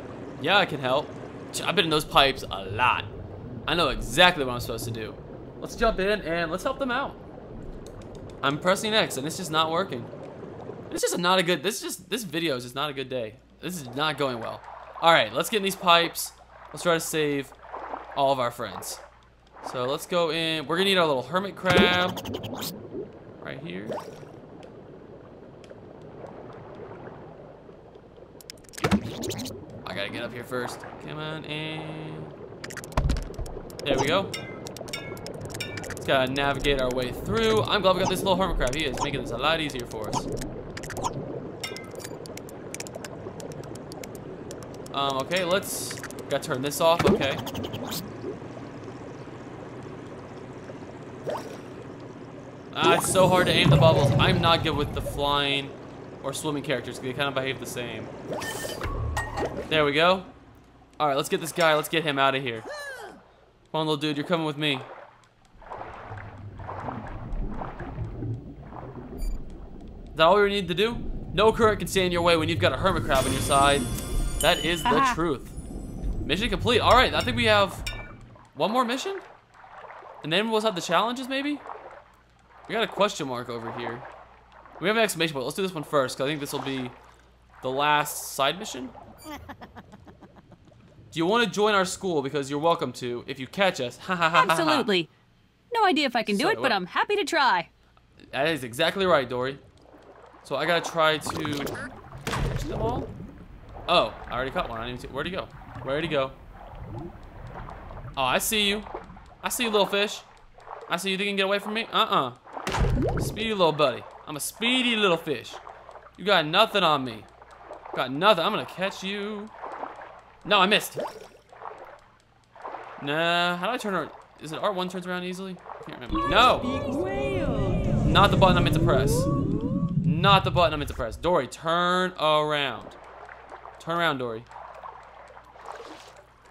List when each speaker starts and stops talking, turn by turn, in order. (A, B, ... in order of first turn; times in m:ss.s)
0:00.4-0:03.1 A
0:03.7-0:07.2 A
0:08.4-0:10.1 A
0:10.9-0:17.5 A
0:18.2-0:19.0 A
0:19.6-0:22.2 A
0:23.4-0:24.0 A
0:29.8-0:32.3 A
0:33.8-0:34.3 A
0:36.0-0:40.3 A
0:44.9-0:47.4 A
0:52.7-0:58.1 A
0:59.7-1:00.3 A
1:01.0-1:02.7 A
1:03.7-1:04.9 A
1:10.1-1:15.6 A
1:14.8-1:15.2 B
1:16.2-1:17.8 A
1:18.5-1:19.2 A
1:20.2-1:21.6 A
1:22.7-1:24.1 A
1:24.8-1:27.0 A
1:27.6-1:29.0 A
1:31.1-1:34.9 A
1:34.3-1:35.1 B
1:35.7-1:37.7 B
1:36.2-1:36.8 A
1:38.3-1:39.6 A
1:40.4-1:41.7 A
1:42.5-1:43.1 A
1:43.9-1:46.4 A
1:48.2-1:48.9 A
1:49.4-1:50.3 A
1:50.9-1:52.4 A
1:53.2-1:55.6 A
1:56.2-1:57.3 A
1:57.9-1:59.5 A
2:00.4-2:01.0 A
2:03.0-2:06.8 A
2:06.8-2:07.8 B
2:08.0-2:09.3 A
2:10.0-2:13.0 A
2:13.8-2:14.5 A